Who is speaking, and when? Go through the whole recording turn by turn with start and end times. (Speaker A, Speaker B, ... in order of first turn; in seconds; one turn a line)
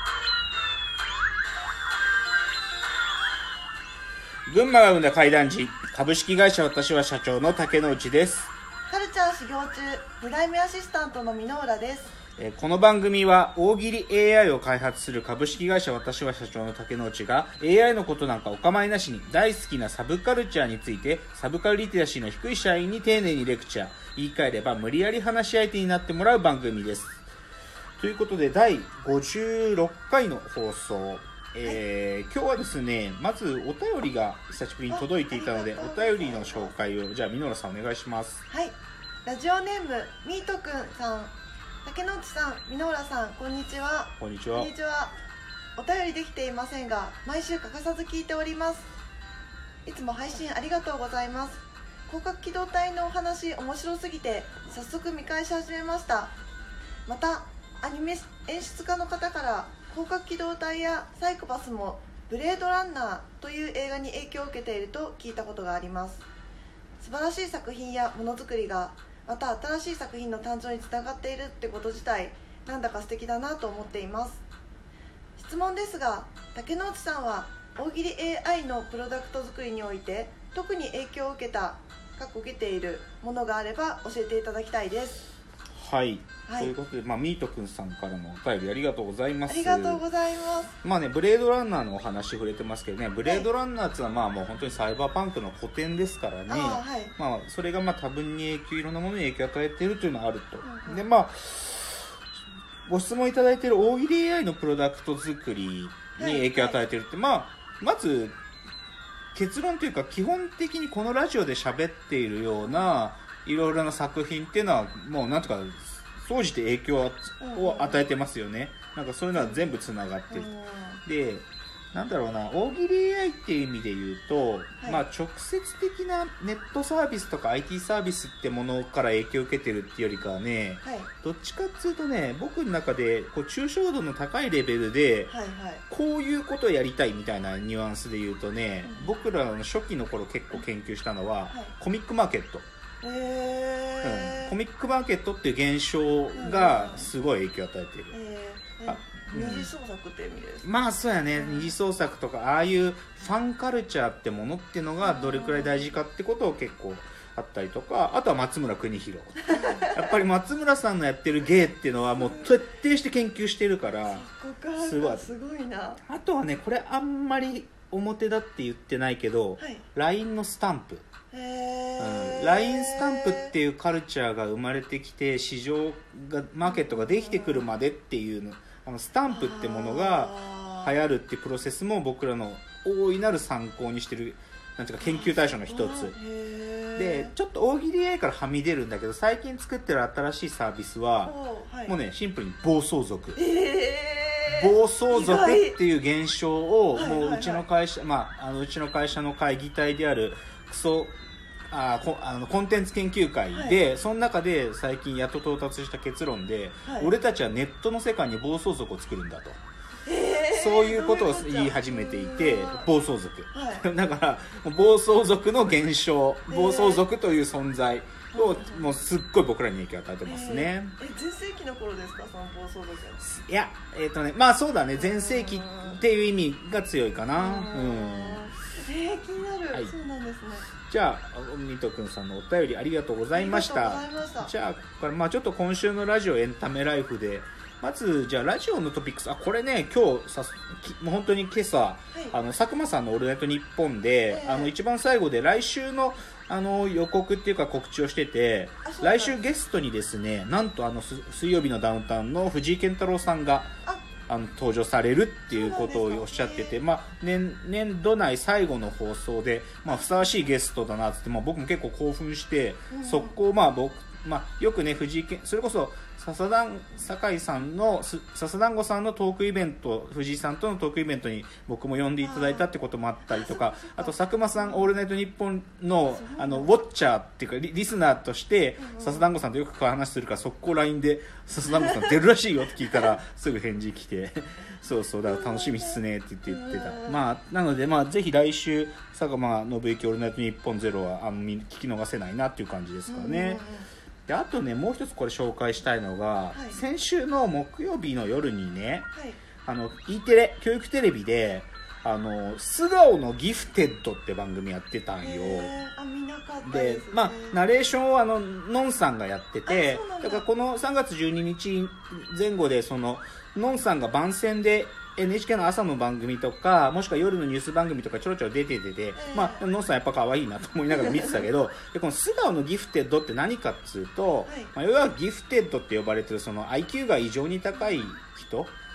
Speaker A: 4.5-8.5
Speaker B: 8.9-12.2
Speaker A: 12.4-27.2
Speaker A: 28.0-38.4
Speaker B: 34.9-36.7
Speaker B: 38.5-45.1
Speaker A: 44.2-44.7
Speaker B: 45.8-48.9
Speaker B: 49.9-56.4
Speaker B: 57.1-66.3
Speaker B: 67.0-74.4
Speaker B: 75.4-85.2
Speaker A: 85.8-90.0
Speaker B: 86.5-86.7
Speaker B: 89.5-90.7
Speaker A: 90.8-102.1
Speaker B: 96.5-97.2
Speaker B: 100.6-101.0
Speaker A: 102.9-108.4
Speaker B: 106.2-106.8
Speaker A: 109.3-120.5
Speaker B: 117.4-118.0
Speaker B: 119.3-119.6
Speaker B: 120.3-121.0
Speaker A: 121.0-135.3
Speaker B: 130.8-131.1
Speaker B: 135.3-135.8
Speaker A: 135.9-142.7
Speaker B: 143.0-144.6
Speaker A: 144.0-148.2
Speaker B: 146.3-147.1
Speaker B: 148.1-150.7
Speaker A: 148.8-149.7
Speaker A: 150.6-164.3
Speaker B: 151.3-151.8
Speaker B: 155.0-155.9
Speaker B: 159.5-160.1
Speaker B: 162.2-162.5
Speaker B: 164.1-166.0
Speaker A: 164.8-165.3
Speaker A: 166.1-171.1
Speaker B: 169.6-169.8
Speaker B: 171.3-173.5
Speaker A: 172.0-186.2
Speaker B: 176.7-177.7
Speaker B: 179.3-180.9
Speaker B: 185.0-187.3
Speaker A: 187.0-191.3
Speaker B: 191.2-191.9
Speaker A: 191.9-193.4
Speaker B: 193.4-195.8
Speaker A: 194.5-201.2
Speaker B: 196.9-197.6
Speaker A: 201.7-209.6
Speaker B: 206.8-207.1
Speaker B: 210.1-212.9
Speaker A: 210.5-221.0
Speaker B: 213.5-213.9
Speaker B: 216.5-217.0
Speaker B: 218.3-218.9
Speaker B: 220.2-223.2
Speaker A: 223.2-228.4
Speaker B: 225.0-226.0
Speaker B: 227.4-230.7
Speaker A: 230.7-253.7
Speaker B: 233.3-234.5
Speaker B: 244.3-244.7
Speaker B: 248.8-249.4
Speaker A: 254.2-293.6
Speaker B: 255.5-256.8
Speaker B: 259.9-260.3
Speaker B: 262.9-263.4
Speaker B: 272.2-272.7
Speaker B: 273.3-274.9
Speaker B: 276.1-276.7
Speaker B: 278.8-279.3
Speaker B: 285.3-287.2
Speaker B: 293.1-293.9
Speaker A: 294.3-299.1
Speaker B: 296.5-296.8
Speaker B: 299.1-299.4
Speaker A: 299.6-305.7
Speaker B: 305.2-307.6
Speaker A: 306.6-328.8
Speaker B: 309.7-310.4
Speaker B: 319.2-319.6
Speaker B: 324.5-324.7